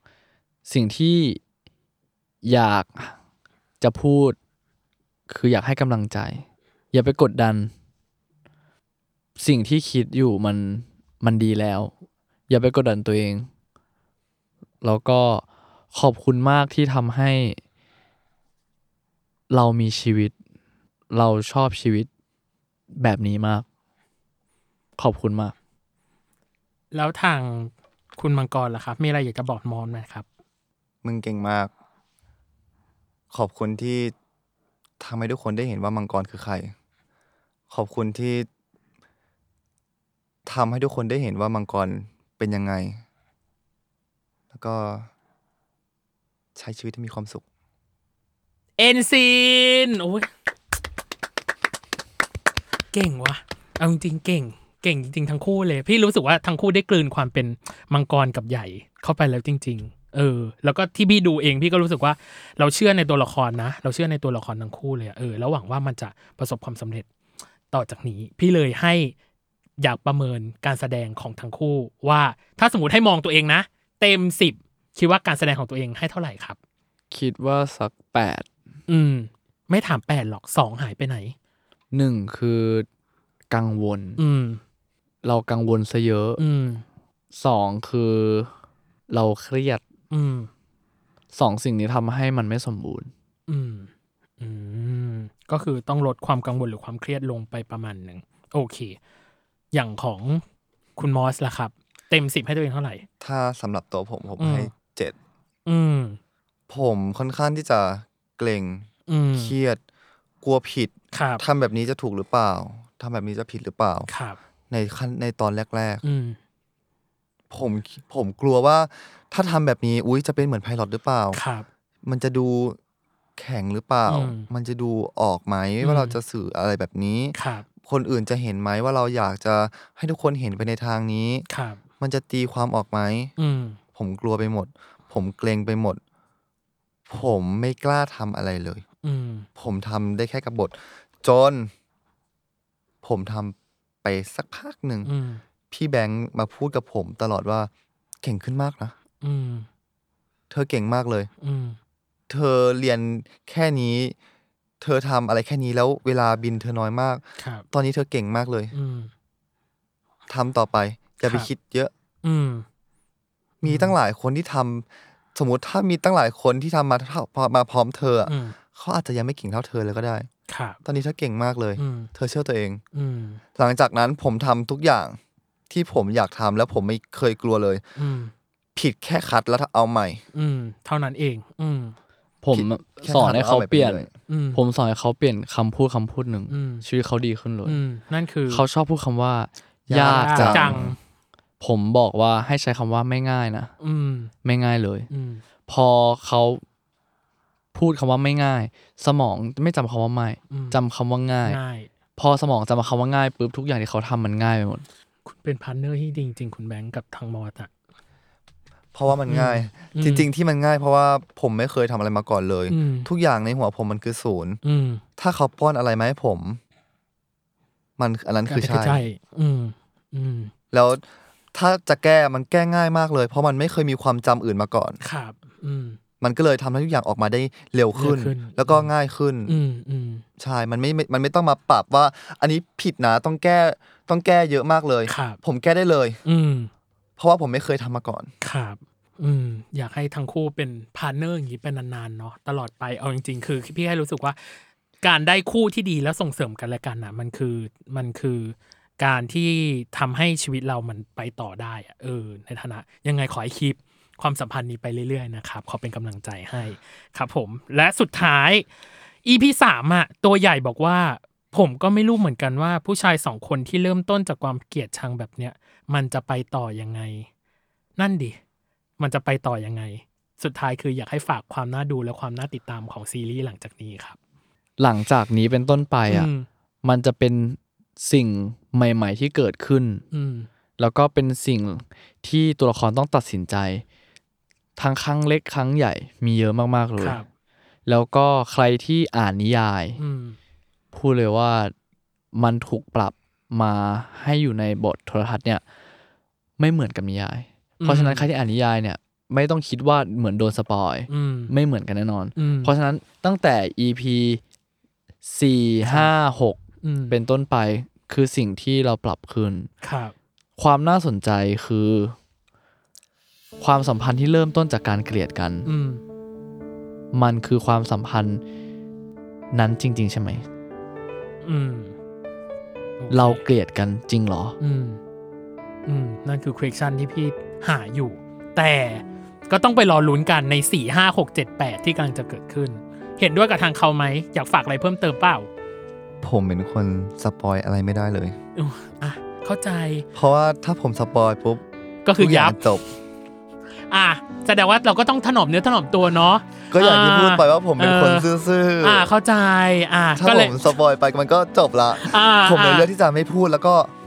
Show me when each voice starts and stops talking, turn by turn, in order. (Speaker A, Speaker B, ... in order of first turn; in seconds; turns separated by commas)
Speaker A: 0.7-1.4, Speaker A: 2.4-3.2, Speaker A: 3.8-4.4, Speaker A: 5.3-7.7, Speaker A: 9.4-11.9, Speaker A: 12.5-13.5, Speaker A: 14.8-17.6, Speaker A: 19.5-20.3, Speaker A: 21.1-22.1, Speaker A: 23.0-23.7, Speaker A: 25.0-25.5, Speaker B: 26.9-30.3, Speaker C: 31.0-31.7, Speaker C: 33.3-34.1, Speaker C: 35.0-36.7, Speaker C: 37.7-38.5, Speaker C: 40.5-43.0, Speaker C: 44.5-45.1, Speaker C: 46.6-47.4, Speaker B: 48.8-50.3, Speaker B: 52.9-67.1, Speaker B: 67.7-69.1, Speaker B: 69.8-76.6, Speaker A: 77.1-78.5, Speaker B: 78.9-81.3, Speaker A: 81.9-82.9, Speaker A: 83.5-84.2, Speaker B: 84.2-84.6, Speaker A: 85.2-86.4, Speaker B: 86.4-86.8, Speaker A: 87.3-88.5, Speaker A: 89.1-89.8, Speaker B: 90.1-90.5, Speaker A: 91.3-93.1, Speaker B: 93.5-93.9, Speaker B: 94.4-99.0, Speaker B: 99.7-100.4, Speaker B: 101.0-103.0, Speaker C: 103.2-105.2, Speaker B: 104.4-104.7, Speaker B: 105.7-106.2, Speaker C: 106.7-109.8, Speaker B: 109.1-109.5, Speaker C: 110.4-114.1, Speaker B: 111.1-111.4, Speaker B: 114.1-114.4, Speaker C: 114.7-116.0, Speaker B: 116.0-116.4, Speaker C: 117.5-121.4, Speaker B: 121.3-121.7, Speaker C: 122.0-122.8, Speaker C: 123.4-131.5, Speaker B: 124.1-124.5, Speaker B: 125.8-126.2, Speaker B: 127.3-127.7, Speaker B: 131.5-131.8, Speaker C: 132.0-133.3, Speaker B: 133.4-133.8, Speaker C: 133.9-136.0, Speaker C: 137.1-138.8, Speaker B: 139.0-139.5, Speaker C: 139.6-141.7, Speaker C: 143.0-145.1, Speaker B: 145.1-145.4, Speaker C: 145.7-147.7, Speaker C: 148.2-148.9, Speaker B: 149.2-149.7, Speaker C: 150.5-151.3, Speaker B: 151.4-151.8, Speaker C: 152.3-154.2, Speaker C: 154.8-158.7, Speaker B: 157.4-157.7, Speaker B: 158.7-159.1, Speaker C: 160.3-161.9, Speaker B: 161.2-161.5, Speaker B: 162.2-162.7, Speaker B: 163.6-164.0, Speaker C: 163.6-170.3, Speaker B: 168.3-168.6, Speaker B: 170.5-170.8, Speaker C: 170.8-172.8, Speaker B: 171.8-172.1, Speaker B: 172.9-173.4, Speaker C: 173.6-175.2, Speaker C: 175.7-177.8, Speaker B: 178.0-178.3, Speaker C: 178.8-180.2, Speaker B: 180.3-181.9, Speaker A: 182.4-187.8, Speaker C: 182.5-184.1, Speaker B: 184.3-184.6, Speaker B: 186.5-186.8, Speaker B: 187.7-188.6, Speaker A: 188.5-190.8, Speaker C: 189.9-190.9, Speaker B: 190.1-191.0, Speaker A: 191.6-193.7, Speaker B: 193.8-194.3, Speaker A: 194.4-195.1, Speaker B: 195.1-195.4, Speaker A: 195.7-196.6, Speaker A: 197.8-201.6, Speaker B: 200.5-200.8, Speaker B: 201.4-201.9, Speaker A: 202.2-204.8, Speaker B: 205.3-207.7, Speaker C: 208.9-214.6, Speaker B: 209.3-210.3, Speaker B: 212.7-213.1, Speaker B: 214.6-215.0, Speaker C: 215.2-216.6, Speaker C: 218.0-219.0, Speaker B: 218.5-220.5, Speaker C: 220.7-221.0, Speaker C: 221.5-225.0, Speaker B: 225.0-226.0, Speaker C: 226.2-229.6, Speaker B: 227.9-228.9, Speaker B: 229.5-230.2, Speaker C: 230.4-236.2, Speaker B: 235.1-235.4, Speaker B: 236.2-236.7, Speaker C: 237.2-238.3, Speaker B: 238.4-244.4, Speaker B: 245.0-258.6, Speaker B: 259.2-267.3, Speaker B: 268.0-268.4, Speaker B: 269.0-274.2, Speaker A: 274.8-276.3, Speaker B: 276.1-276.5, Speaker A: 276.8-280.0, Speaker B: 280.1-280.5, Speaker A: 280.8-283.8, Speaker A: 284.8-287.2, Speaker B: 287.0-287.3, Speaker A: 287.9-290.0, Speaker B: 290.0-290.4, Speaker A: 290.9-291.7, Speaker A: 292.3-295.6, Speaker A: 296.6-304.4, Speaker B: 297.8-298.2, Speaker B: 301.1-301.5, Speaker B: 302.4-302.7, Speaker A: 305.2-306.6, Speaker B: 305.8-306.1, Speaker B: 306.8-307.2, Speaker A: 307.1-309.7, Speaker B: 309.8-310.1, Speaker A: 310.6-312.1, Speaker A: 313.6-315.7, Speaker B: 315.6-316.0, Speaker A: 317.1-318.4, Speaker A: 319.5-320.4, Speaker B: 321.4-321.9, Speaker B: 323.0-323.4, Speaker A: 323.1-324.6, Speaker B: 324.6-325.0, Speaker B: 325.9-335.5, Speaker C: 336.2-338.4, Speaker B: 338.6-340.1, Speaker C: 340.1-341.6, Speaker B: 342.1-342.6, Speaker C: 342.2-342.9, Speaker B: 343.9-348.3, Speaker C: 346.7-349.1, Speaker B: 348.8-350.7, Speaker C: 350.2-353.9, Speaker B: 352.0-352.9